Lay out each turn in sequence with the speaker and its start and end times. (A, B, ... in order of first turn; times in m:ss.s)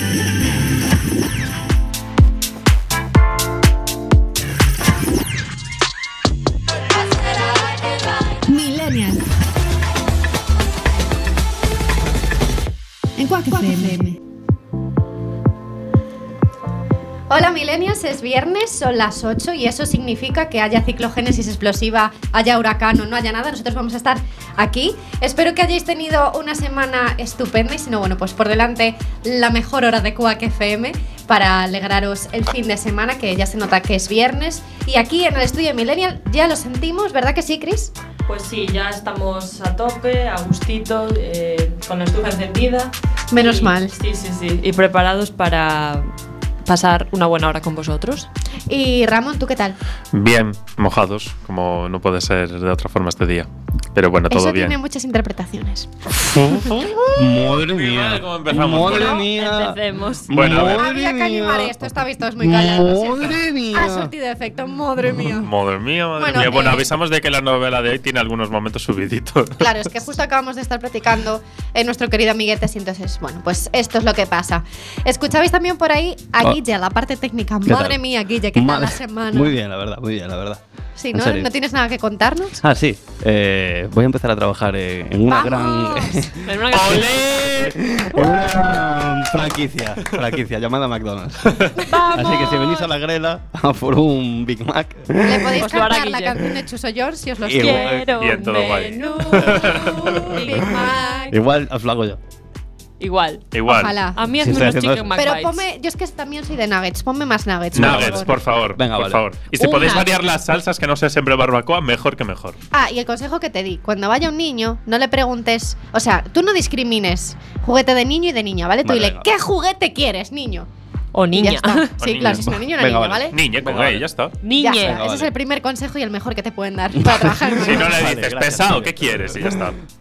0:08.5-0:09.2 A
0:13.2-0:14.2 A
0:17.3-0:37.9 A
0:38.3-0:46.1 B
0:43.3-0:43.9 A
0:46.6-0:48.3 B
0:48.7-0:49.8 A
0:50.1-0:54.8 C
0:54.3-0:55.9 A
0:56.3-1:04.1 D
0:56.3-0:59.2 C
0:58.8-1:00.3 B
1:00.3-1:00.8 C
1:00.5-1:05.5 A
1:05.4-1:09.7 C
1:06.2-1:06.8 A
1:09.6-1:19.5 A
1:17.6-1:18.0 D
1:18.5-1:20.6 D
1:21.0-1:22.6 A
1:21.1-1:21.5 D
1:22.6-1:35.9 D
1:25.3-1:26.3 A
1:26.4-1:27.2 B
1:26.7-1:27.8 C
1:31.8-1:32.0 A
1:31.9-1:32.9 B
1:35.2-1:38.0 A
1:35.6-1:36.4 B
1:37.4-1:38.1 D
1:37.5-1:41.3 B
1:38.2-1:38.9 C
1:38.9-1:41.4 A
1:39.4-1:40.2 C
1:40.0-1:42.2 D
1:43.0-1:43.4 B
1:43.5-1:44.0 C
1:43.7-1:44.2 A
1:44.1-1:45.6 B
1:44.3-1:45.1 D
1:45.1-1:48.4 A
1:47.7-1:49.2 D
1:47.7-1:52.6 C
1:49.6-1:50.1 B
1:52.7-2:00.7 A
1:58.8-1:59.3 D
2:01.1-2:01.9 B
2:01.3-2:03.4 A
2:02.0-2:02.5 C
2:02.2-2:04.0 D
2:03.3-2:04.3 C
2:04.4-2:05.0 B
2:04.6-2:08.0 A
2:04.8-2:05.3 D
2:06.9-2:09.6 D
2:07.6-2:09.8 C